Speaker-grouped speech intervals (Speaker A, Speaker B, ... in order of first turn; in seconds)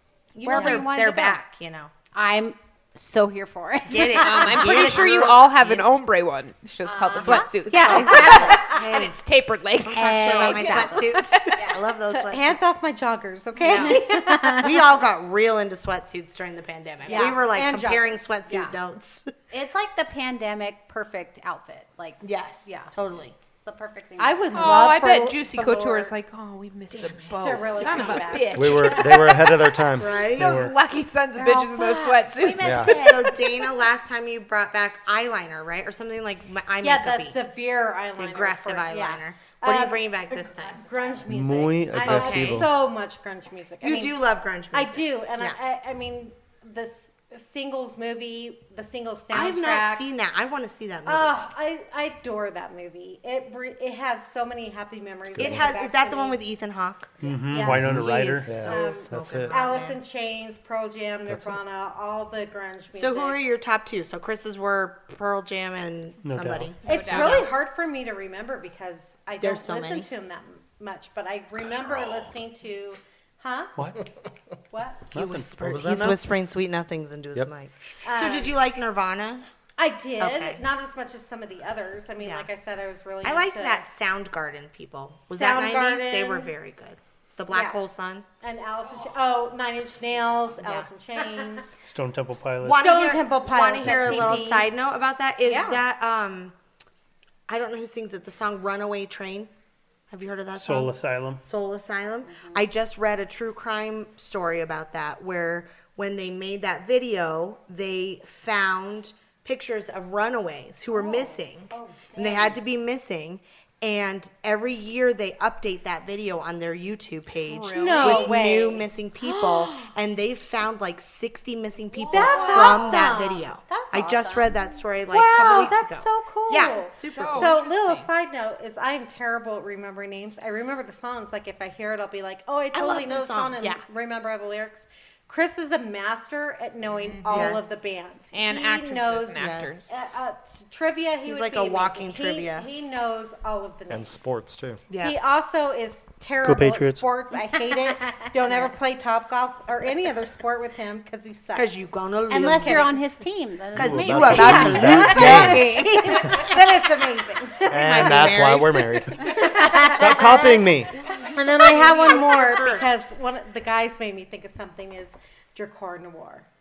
Speaker A: 0.3-1.9, 3.9-5.9, 7.2-9.2, 9.8-12.6, 13.7-13.9, 14.5-19.2, 22.2-23.3, 26.9-28.7, 29.9-30.6, 32.4-37.4, 38.1-41.1, 42.0-42.7, 43.8-45.6, 49.3-51.4, 55.4-60.0, 62.9-67.5, 69.4-70.1, 75.1-79.5, 80.2-80.6, 82.2-82.5, 83.2-88.2, 90.6-90.9, 92.6-96.5, 97.5-99.5, 100.1-127.6, 132.7-133.8, 137.2-137.8, 139.3-139.8, 141.2-142.7, 144.9-145.2, 151.5-153.0, 153.7-163.0
Speaker B: 0.4-1.4, 2.1-4.9, 6.8-8.3, 9.9-11.8, 13.6-14.8, 17.1-17.4, 18.5-18.7, 19.5-22.9, 23.6-24.9, 31.4-33.1, 102.2-102.7, 110.9-112.6, 122.1-122.9, 123.7-124.7, 148.0-148.7, 152.3-155.4, 159.4-160.2
Speaker C: 0.5-0.9, 7.3-8.8, 12.2-14.8, 17.1-18.3, 24.2-26.1, 27.4-28.8, 36.8-50.1, 51.0-56.4, 57.5-63.4, 66.8-73.7, 74.7-75.1, 78.0-78.5, 79.8-83.8, 85.3-86.5, 87.5-87.8, 88.4-91.8, 92.8-94.7, 95.4-95.8, 117.8-118.9, 122.1-123.5, 125.1-144.2, 144.9-151.8, 152.3-153.0, 154.3-158.3, 159.3-160.6, 161.2-166.4
Speaker D: 4.2-11.6, 24.5-33.4, 66.8-67.5, 117.5-118.4, 119.2-119.8, 122.0-122.9, 127.1-128.1, 136.9-137.6, 138.3-139.9
Speaker E: 28.5-30.7, 32.6-32.9, 41.3-42.7, 55.3-55.7, 57.6-59.6, 61.3-61.6, 75.6-76.2, 143.9-144.8, 153.8-155.8, 157.7-160.9
Speaker F: 30.4-30.7, 57.2-58.6, 66.2-66.7, 73.8-74.1, 75.1-75.5, 91.8-92.8, 100.5-101.4, 146.4-147.0